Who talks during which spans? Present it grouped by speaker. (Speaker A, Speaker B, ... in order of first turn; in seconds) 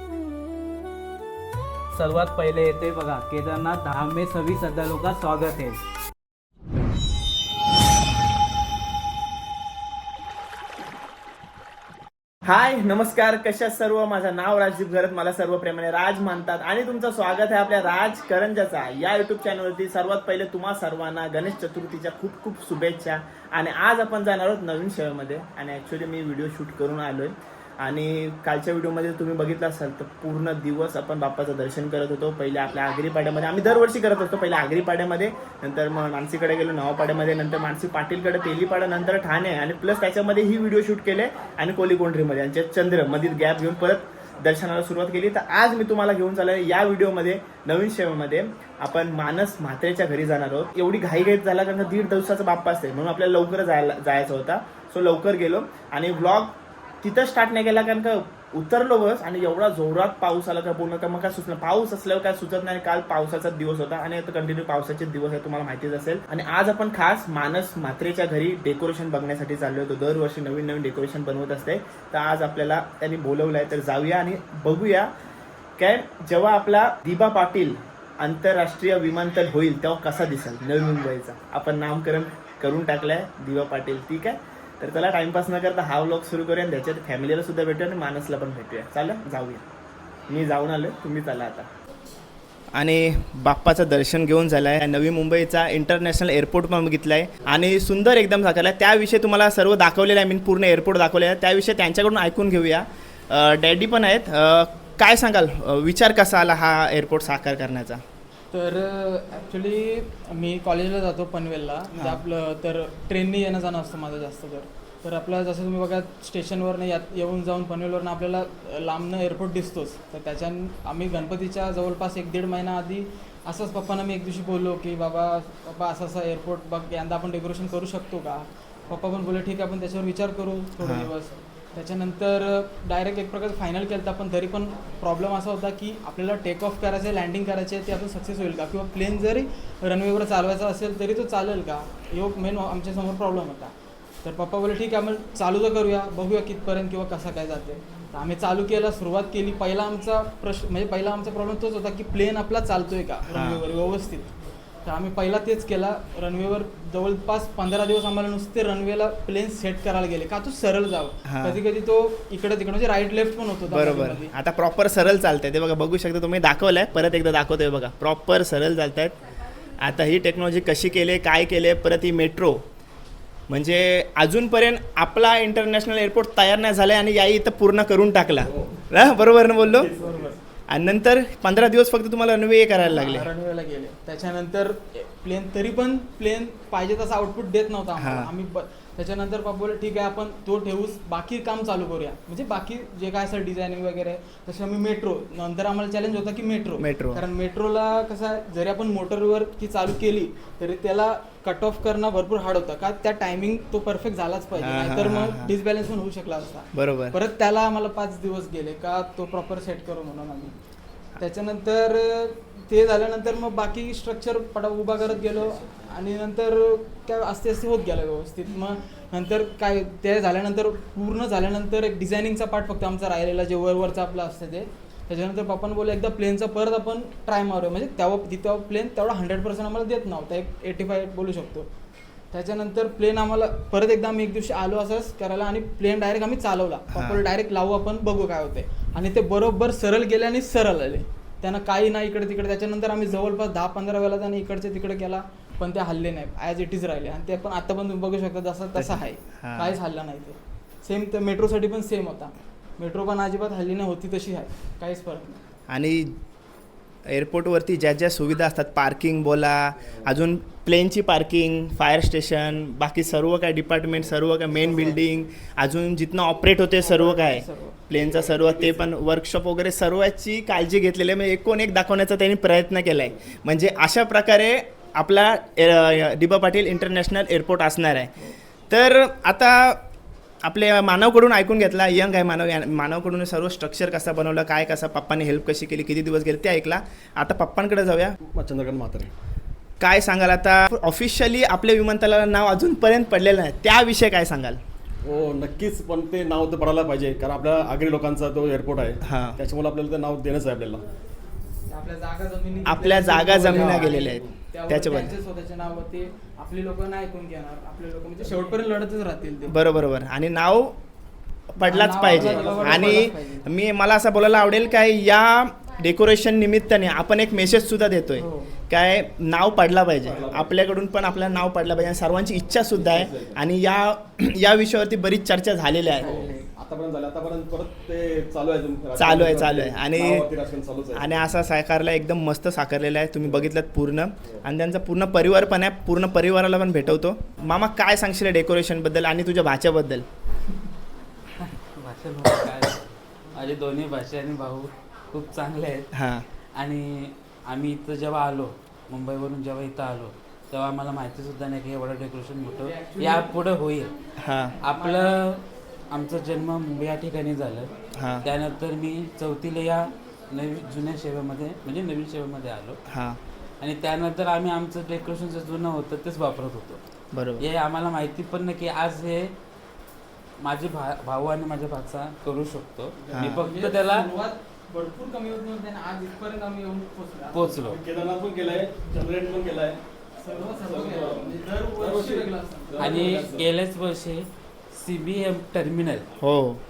Speaker A: 1.9-5.8
Speaker B: 12.5-75.1, 75.8-89.7, 90.3-91.7, 92.8-108.0, 111.9-112.2, 130.8-131.1, 153.3-153.6, 161.2-161.6, 163.7-169.1, 169.8-172.6, 173.5-179.9, 180.7-183.3, 188.0-188.3, 196.8-197.2, 204.6-205.5, 206.7-207.2, 236.9-237.2, 248.8-249.7, 255.7-256.1, 257.1-279.8, 280.4-288.1, 289.8-294.6, 299.0-299.4, 302.6-305.1, 309.5-310.7, 311.6-326.1, 329.0-330.2, 330.9-340.0, 345.9-346.2, 354.2-354.6, 357.9-358.2, 362.9-363.2, 367.1-367.4, 373.1-373.4, 386.2-386.6
Speaker C: 108.5-143.7, 144.2-154.3, 154.8-164.3, 180.0-180.4, 182.9-210.5, 211.2-231.7, 232.3-255.3, 266.8-267.8, 301.7-309.5, 311.6-313.4, 318.2-318.5, 326.0-326.4, 352.6-353.4, 354.6-355.2, 373.4-377.8, 380.2-383.1
Speaker D: 178.4-178.8, 179.5-180.4, 268.0-268.8, 288.3-289.1, 295.0-300.8, 303.5-303.9, 312.1-312.9, 320.0-320.6, 322.6-323.4, 326.0-331.3, 333.2-333.5, 373.0-373.4, 377.6-379.8, 380.4-383.5
Speaker E: 341.4-345.8, 346.6-353.9, 354.6-357.7, 358.2-362.8, 363.6-366.8, 367.4-369.3, 370.4-374.1, 377.3-377.8, 382.8-386.1